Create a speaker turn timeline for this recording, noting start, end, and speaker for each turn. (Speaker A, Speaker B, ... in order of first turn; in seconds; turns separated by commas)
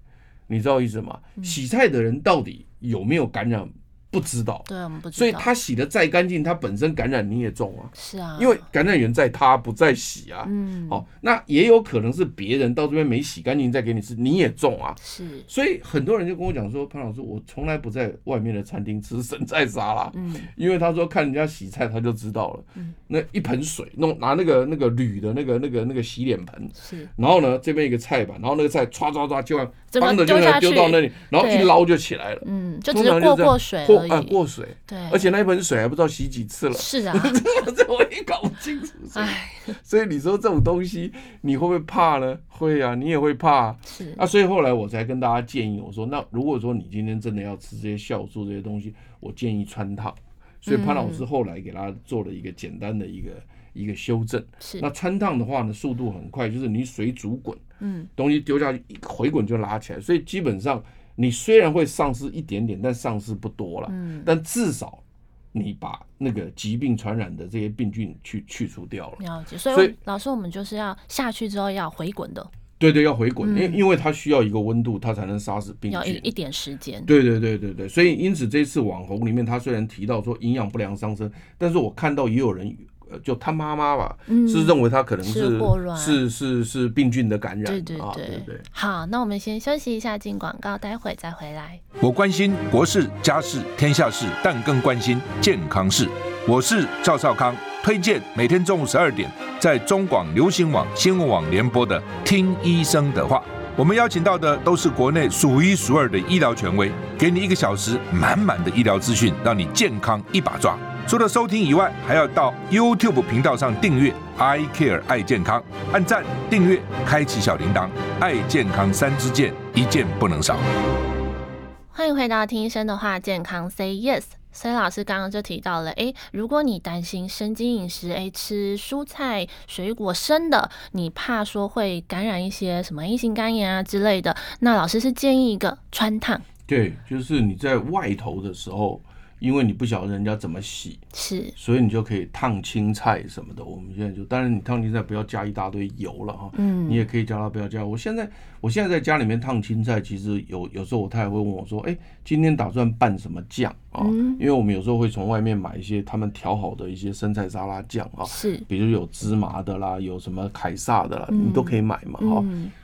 Speaker A: 0.5-57.6, Speaker B: 4.7-5.5, Speaker B: 8.0-8.7, Speaker B: 10.4-11.0, Speaker B: 15.0-15.5, Speaker B: 20.1-20.5, Speaker B: 26.8-27.1, Speaker B: 29.9-31.8, Speaker B: 32.4-35.2, Speaker B: 36.7-37.4, Speaker B: 39.1-39.8, Speaker B: 43.9-44.2, Speaker B: 50.7-51.2, Speaker B: 54.6-54.9, Speaker B: 57.8-58.1, Speaker A: 58.2-65.0, Speaker B: 63.9-64.3, Speaker A: 65.5-70.0, Speaker B: 69.2-72.5, Speaker A: 72.8-76.3, Speaker B: 73.4-73.8, Speaker B: 75.9-77.1, Speaker A: 77.1-88.7, Speaker B: 84.3-86.2, Speaker B: 87.7-91.8, Speaker C: 92.0-120.7, Speaker B: 121.9-136.4, Speaker A: 136.7-141.0, Speaker B: 141.1-141.6, Speaker A: 141.6-162.5, Speaker B: 146.5-147.0, Speaker B: 154.0-154.4, Speaker B: 158.3-158.7, Speaker B: 161.3-162.7